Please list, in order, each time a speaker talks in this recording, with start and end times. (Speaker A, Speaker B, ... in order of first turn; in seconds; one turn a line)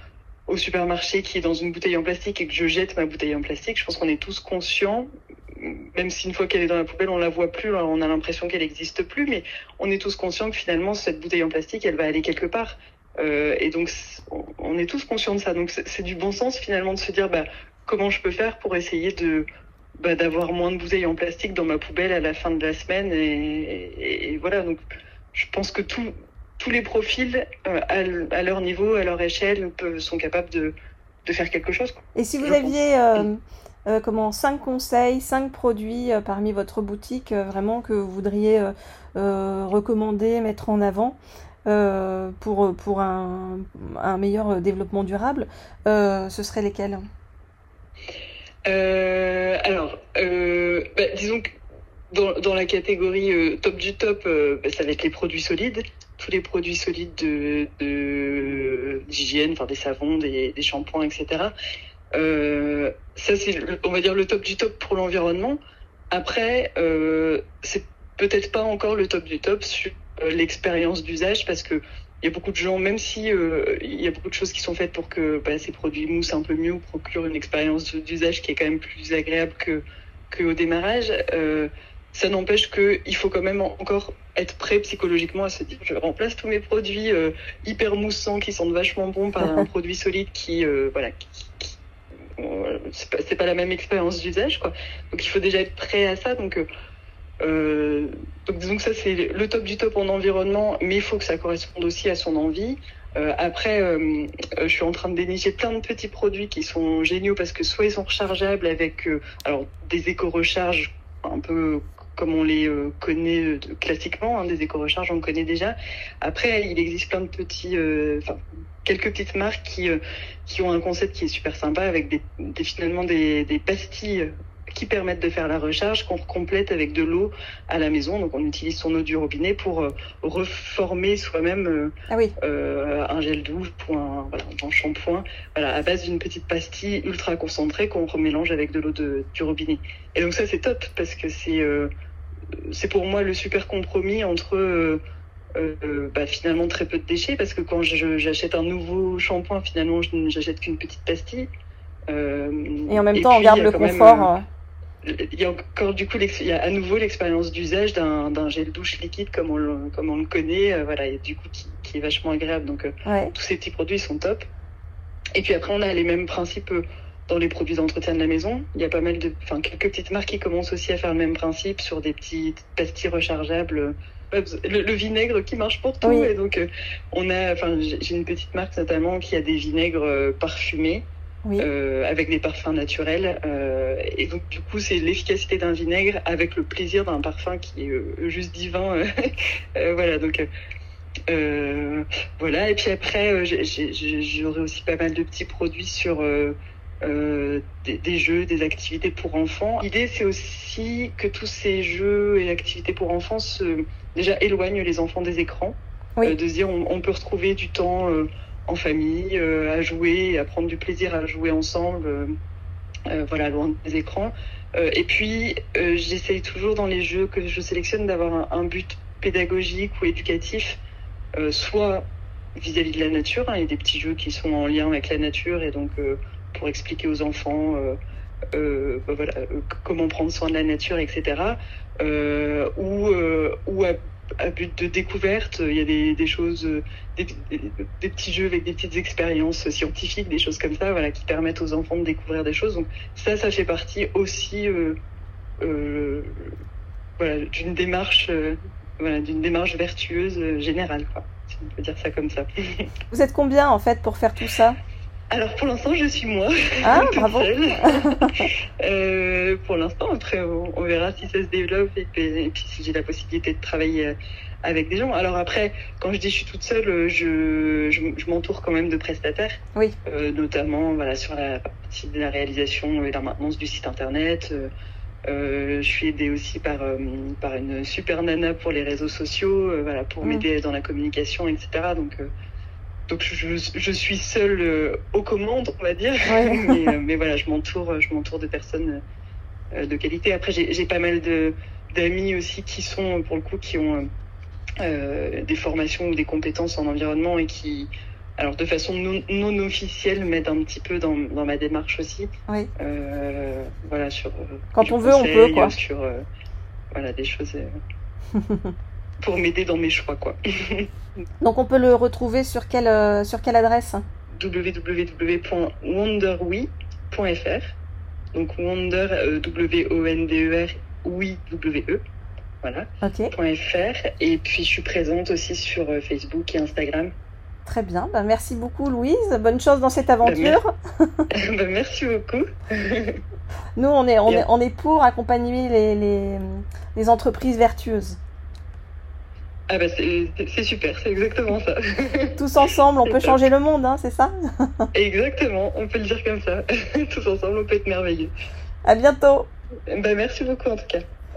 Speaker A: 0.5-19.5
Speaker A: 20.0-24.8
Speaker A: 25.3-30.7
Speaker A: 31.2-33.3
Speaker B: 32.1-47.0
Speaker A: 48.6-51.6
Speaker A: 52.1-61.5
Speaker A: 62.1-65.6
Speaker A: 66.1-91.8
Speaker A: 92.4-96.7
Speaker A: 97.4-141.9
Speaker A: 142.7-145.0
Speaker A: 145.6-151.5
Speaker A: 152.1-154.3
Speaker B: 152.9-154.4
Speaker A: 155.0-164.5
Speaker B: 163.0-163.3
Speaker A: 165.3-181.1
Speaker B: 176.0-176.3
Speaker A: 181.6-190.5
Speaker A: 191.3-212.3
Speaker A: 213.1-220.8
Speaker A: 221.4-228.0
Speaker A: 228.5-245.0
Speaker A: 245.6-246.5
Speaker A: 247.2-252.8
Speaker B: 253.1-254.8
Speaker A: 255.3-274.7
Speaker B: 256.8-258.3
Speaker A: 275.3-282.3
Speaker A: 283.1-289.0
Speaker B: 286.3-286.9
Speaker A: 289.7-294.1
Speaker A: 294.8-306.2
Speaker B: 304.7-305.7
Speaker A: 306.9-307.8
Speaker A: 309.2-310.9
Speaker B: 311.4-314.0
Speaker A: 314.4-317.7
Speaker A: 318.3-322.0
Speaker A: 322.6-327.1
Speaker B: 323.0-323.3
Speaker B: 327.6-331.1
Speaker A: 330.2-330.6
Speaker A: 331.3-333.2
Speaker B: 333.8-338.2
Speaker A: 339.7-342.4
Speaker B: 342.4-344.8
Speaker A: 343.1-343.4
Speaker A: 344.9-348.3
Speaker B: 348.8-349.5
Speaker A: 349.9-351.0